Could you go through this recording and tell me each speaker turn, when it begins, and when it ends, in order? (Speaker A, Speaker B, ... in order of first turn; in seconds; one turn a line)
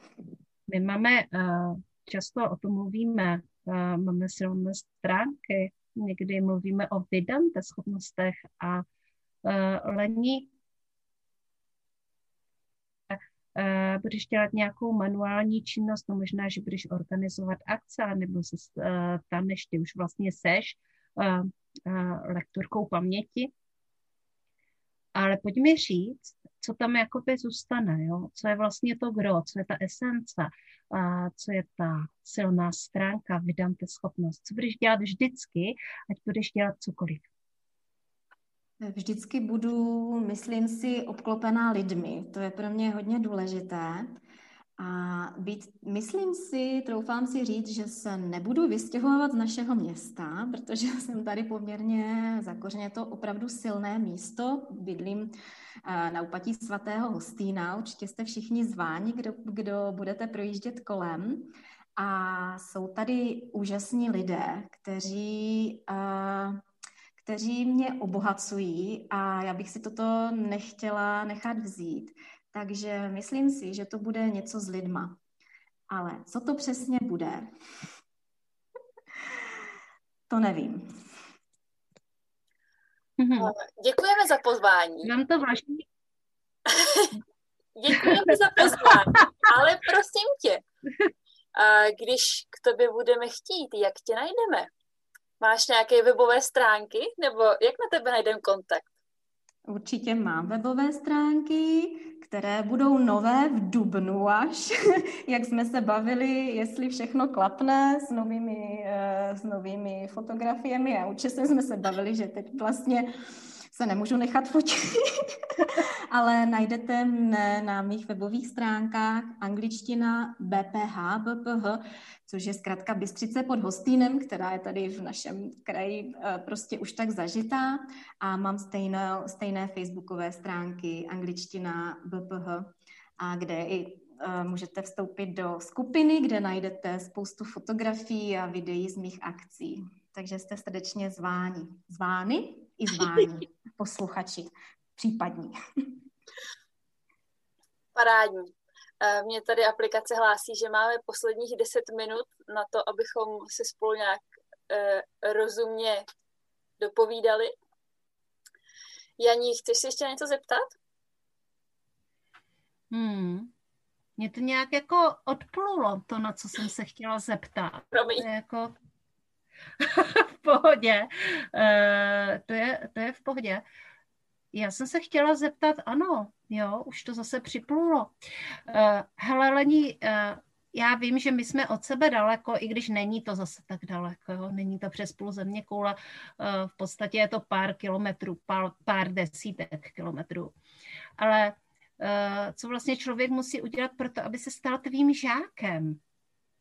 Speaker A: 0.7-8.8
Speaker A: 9.4-10.5
Speaker A: 13.1-23.5
Speaker A: 25.1-37.3
Speaker B: 38.8-44.1
Speaker B: 44.8-55.3
Speaker B: 55.9-66.6
Speaker B: 67.2-75.2
Speaker B: 75.9-77.5
Speaker B: 80.3-80.8
Speaker A: 83.2-83.5
Speaker C: 83.4-85.1
Speaker A: 85.0-85.9
Speaker C: 86.7-87.1
Speaker C: 87.8-90.6
Speaker A: 88.8-89.5
Speaker C: 91.5-94.7
Speaker C: 95.4-98.9
Speaker B: 99.7-104.8
Speaker B: 105.3-113.1
Speaker B: 113.7-115.0
Speaker B: 115.6-145.5
Speaker C: 147.9-156.0
Speaker C: 156.8-157.5
Speaker C: 159.2-160.7
Speaker A: 162.9-163.5
Speaker A: 164.2-168.8
Speaker C: 167.9-168.3
Speaker A: 169.8-173.6
Speaker A: 174.5-178.1
Speaker A: 178.7-190.6
Speaker A: 191.2-196.0